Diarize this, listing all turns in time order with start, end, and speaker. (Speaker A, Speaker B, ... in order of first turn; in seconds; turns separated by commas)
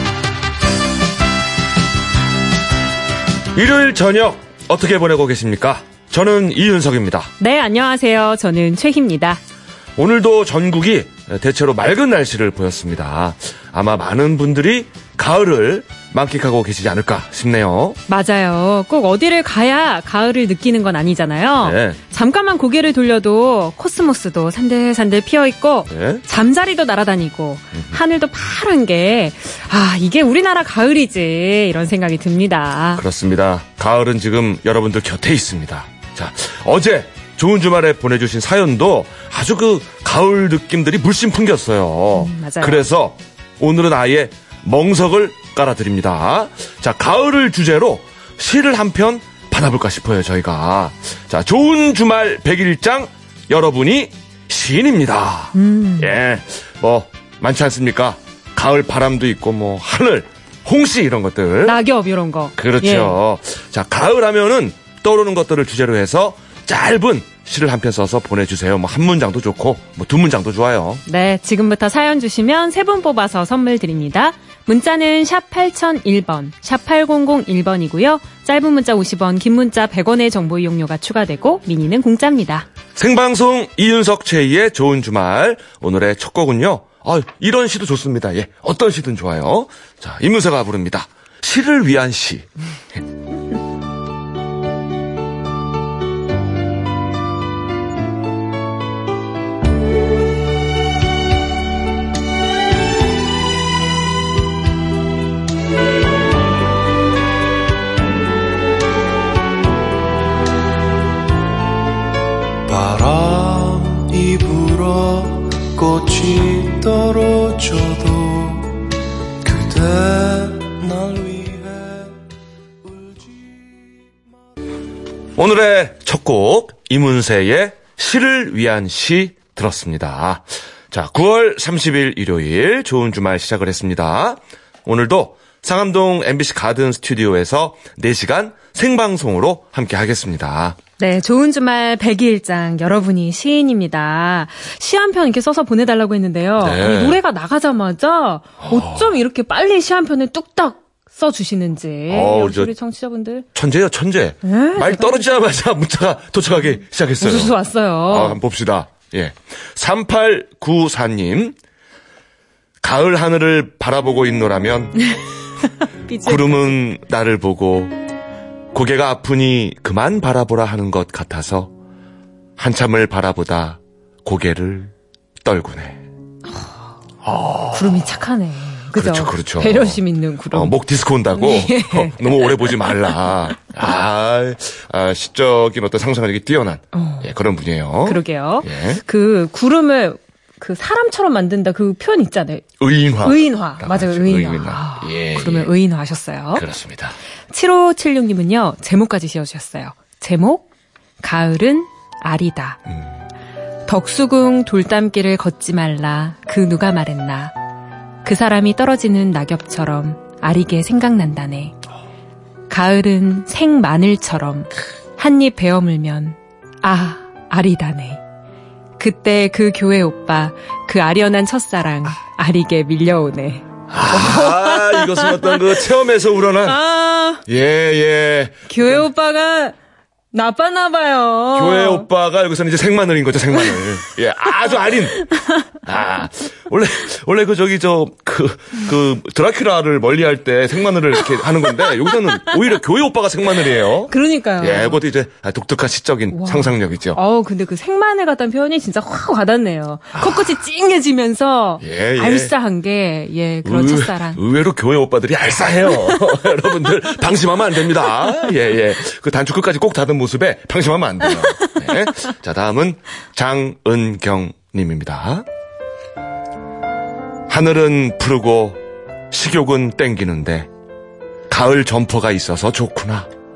Speaker A: 3.5-7.3, Speaker B: 7.4-9.4, Speaker A: 10.0-18.0, Speaker B: 18.1-33.0, Speaker A: 21.6-22.0, Speaker A: 25.9-26.2, Speaker A: 27.7-28.0, Speaker A: 33.0-61.8, Speaker B: 42.1-42.8, Speaker B: 55.5-56.1, Speaker B: 61.6-63.1, Speaker A: 62.5-71.0, Speaker B: 71.1-82.7, Speaker A: 83.0-93.0, Speaker C: 112.7-118.9, Speaker C: 119.4-122.2, Speaker C: 122.8-124.2, Speaker A: 125.4-140.8, Speaker B: 141.0-153.5, Speaker A: 146.6-147.2, Speaker A: 148.6-149.2, Speaker A: 152.1-152.8, Speaker A: 153.6-161.6, Speaker B: 154.4-155.2, Speaker B: 157.2-158.4, Speaker A: 162.8-165.1, Speaker B: 166.1-166.7, Speaker A: 166.2-167.9, Speaker A: 168.7-171.7, Speaker A: 172.6-176.0, Speaker A: 177.2-178.2, Speaker B: 177.7-180.8, Speaker A: 178.9-189.0, Speaker B: 181.3-183.2, Speaker B: 186.9-187.3, Speaker B: 188.1-192.7, Speaker A: 192.8-195.7, Speaker B: 193.2-196.7, Speaker A: 196.5-197.2, Speaker B: 197.5-200.7, Speaker B: 201.2-202.8, Speaker A: 202.9-203.2, Speaker B: 203.9-207.6, Speaker B: 208.2-211.8, Speaker B: 212.7-218.2, Speaker B: 219.0-225.8, Speaker A: 223.9-226.8, Speaker B: 226.7-227.4, Speaker A: 227.5-229.1, Speaker B: 228.7-229.8, Speaker B: 230.3-232.1, Speaker A: 231.5-247.2, Speaker B: 235.2-235.7, Speaker B: 242.3-242.5, Speaker B: 244.1-245.0, Speaker B: 246.3-254.4, Speaker A: 250.1-250.6, Speaker A: 251.8-252.5, Speaker A: 253.6-265.4, Speaker B: 255.9-256.4, Speaker A: 267.5-268.8, Speaker A: 269.3-270.7, Speaker A: 271.5-273.3